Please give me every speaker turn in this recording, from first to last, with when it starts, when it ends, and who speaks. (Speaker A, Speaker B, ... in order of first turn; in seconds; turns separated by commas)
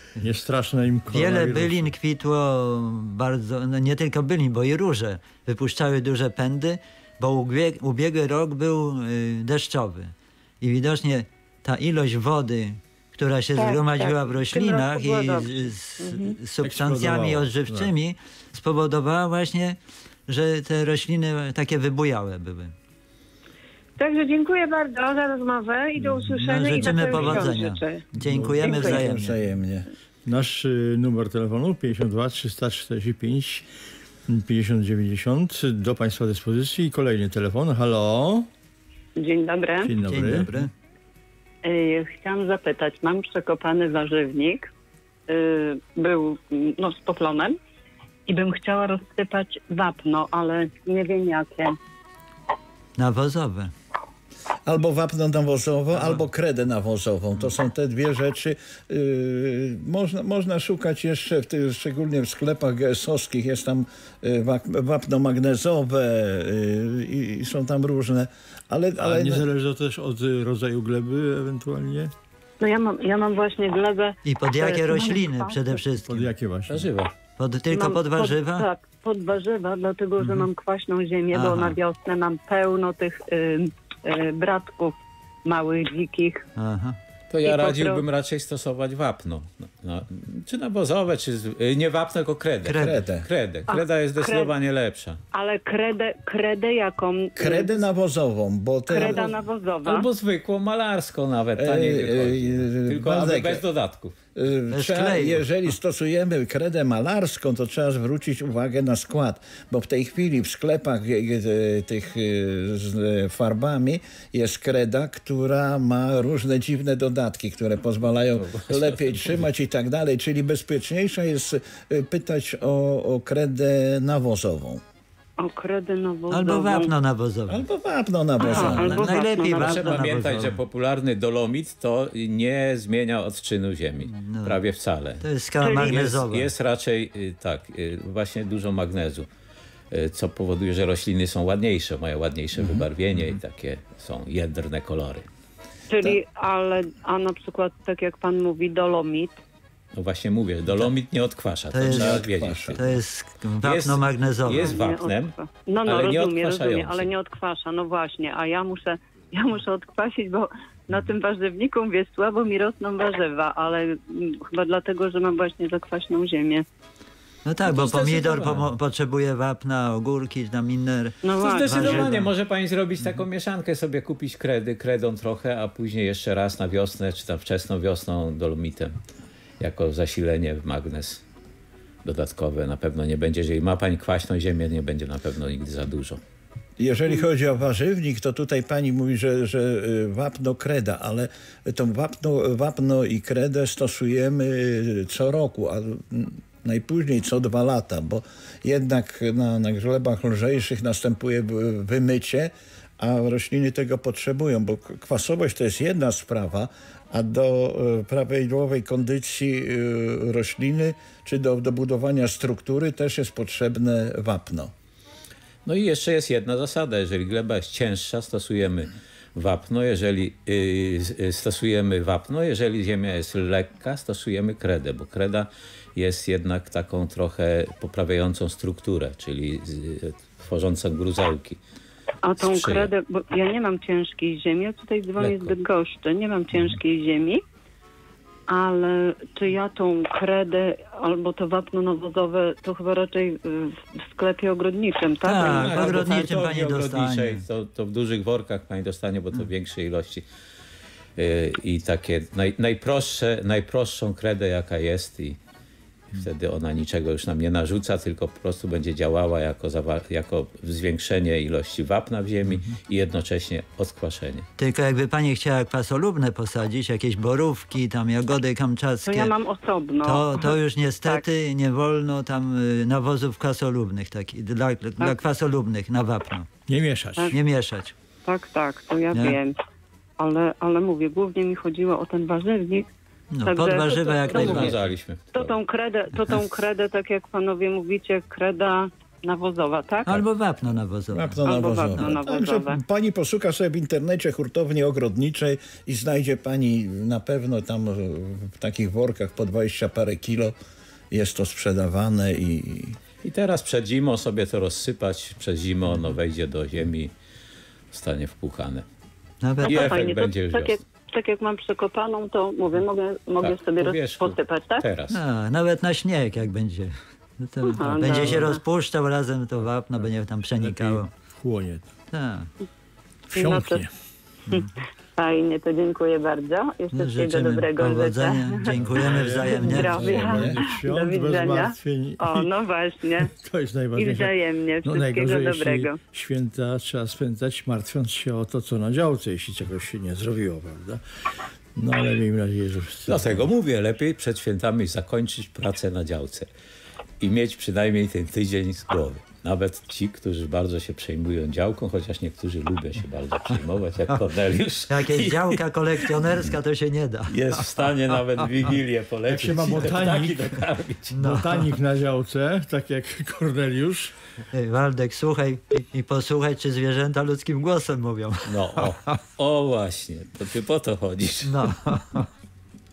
Speaker A: 0.2-1.9, Speaker B: 1.1-22.7, Speaker C: 13.6-16.4, Speaker A: 16.6-17.9, Speaker C: 24.0-28.1, Speaker B: 26.0-29.4, Speaker D: 28.2-29.9, Speaker C: 28.6-29.0, Speaker A: 30.3-33.7, Speaker A: 34.3-38.5, Speaker E: 39.2-39.9, Speaker A: 39.8-40.6, Speaker B: 40.0-40.7, Speaker E: 41.6-44.7, Speaker E: 45.3-47.6, Speaker E: 48.3-51.8, Speaker B: 53.0-53.7, Speaker D: 54.7-69.5, Speaker B: 55.9-56.2, Speaker A: 69.0-72.1, Speaker E: 72.6-75.8, Speaker B: 74.2-76.3, Speaker A: 76.0-76.9, Speaker F: 76.7-77.1, Speaker B: 77.4-78.7, Speaker E: 77.7-86.5, Speaker B: 80.2-80.5, Speaker B: 81.3-81.8, Speaker B: 86.6-87.0, Speaker F: 87.3-95.2, Speaker E: 87.4-88.0, Speaker B: 92.7-92.9, Speaker D: 92.7-93.3, Speaker E: 93.7-94.5, Speaker E: 95.3-97.7, Speaker D: 97.4-99.4, Speaker E: 98.9-100.1, Speaker F: 99.8-104.2, Speaker D: 101.6-103.6, Speaker D: 104.4-124.8, Speaker B: 104.7-105.5, Speaker F: 118.7-119.0, Speaker E: 125.4-126.9, Speaker B: 126.3-127.7, Speaker D: 127.5-129.1, Speaker E: 128.4-130.1, Speaker B: 128.4-130.6, Speaker F: 129.5-139.3, Speaker B: 134.0-134.6, Speaker B: 135.2-136.5, Speaker E: 135.6-136.0, Speaker F: 139.9-145.3, Speaker B: 142.6-143.3, Speaker E: 145.9-149.4, Speaker F: 150.0-152.8, Speaker B: 151.7-154.8, Speaker D: 151.9-152.8, Speaker F: 153.6-157.1, Speaker E: 154.5-166.7, Speaker B: 167.4-172.2, Speaker F: 167.8-168.7, Speaker E: 167.8-168.2, Speaker E: 171.2-172.2, Speaker F: 171.4-178.9, Speaker F: 179.6-181.2, Speaker F: 182.1-186.2, Speaker D: 186.8-214.7, Speaker F: 215.7-231.6, Speaker E: 232.2-237.4, Speaker F: 232.4-232.9, Speaker F: 235.2-235.6, Speaker E: 238.5-246.3, Speaker B: 245.2-247.4, Speaker F: 245.4-250.2, Speaker F: 251.2-255.4, Speaker F: 256.1-264.5, Speaker B: 264.6-269.3, Speaker E: 269.0-271.2, Speaker B: 270.0-276.5, Speaker A: 276.7-277.3, Speaker B: 277.3-277.9, Speaker E: 278.2-279.6, Speaker B: 279.1-279.4, Speaker E: 280.2-282.9, Speaker B: 283.3-284.8, Speaker E: 283.4-284.8, Speaker F: 284.3-285.6, Speaker E: 285.3-290.2, Speaker B: 290.1-292.1, Speaker D: 291.1-300.6, Speaker E: 291.4-292.8, Speaker D: 301.1-303.0, Speaker F: 303.2-307.1, Speaker F: 307.9-308.9, Speaker B: 309.4-310.0, Speaker F: 309.6-310.8, Speaker E: 309.6-314.9, Speaker F: 313.4-315.2, Speaker B: 315.1-321.1, Speaker E: 317.6-318.6, Speaker A: 318.0-318.5, Speaker A: 320.6-321.9, Speaker B: 322.1-322.5, Speaker A: 323.3-323.9, Speaker E: 323.3-323.9, Speaker E: 324.5-333.3, Speaker B: 326.9-330.3, Speaker A: 328.7-332.5, Speaker D: 330.0-330.6, Speaker A: 333.3-341.0, Speaker E: 333.9-336.0, Speaker A: 341.8-343.5, Speaker F: 343.1-346.5, Speaker F: 347.2-356.1, Speaker B: 354.9-357.5, Speaker F: 357.3-361.2, Speaker A: 359.3-360.5, Speaker B: 361.1-361.6, Speaker A: 361.2-364.1, Speaker B: 364.5-369.1, Speaker F: 368.4-371.7, Speaker B: 371.4-372.3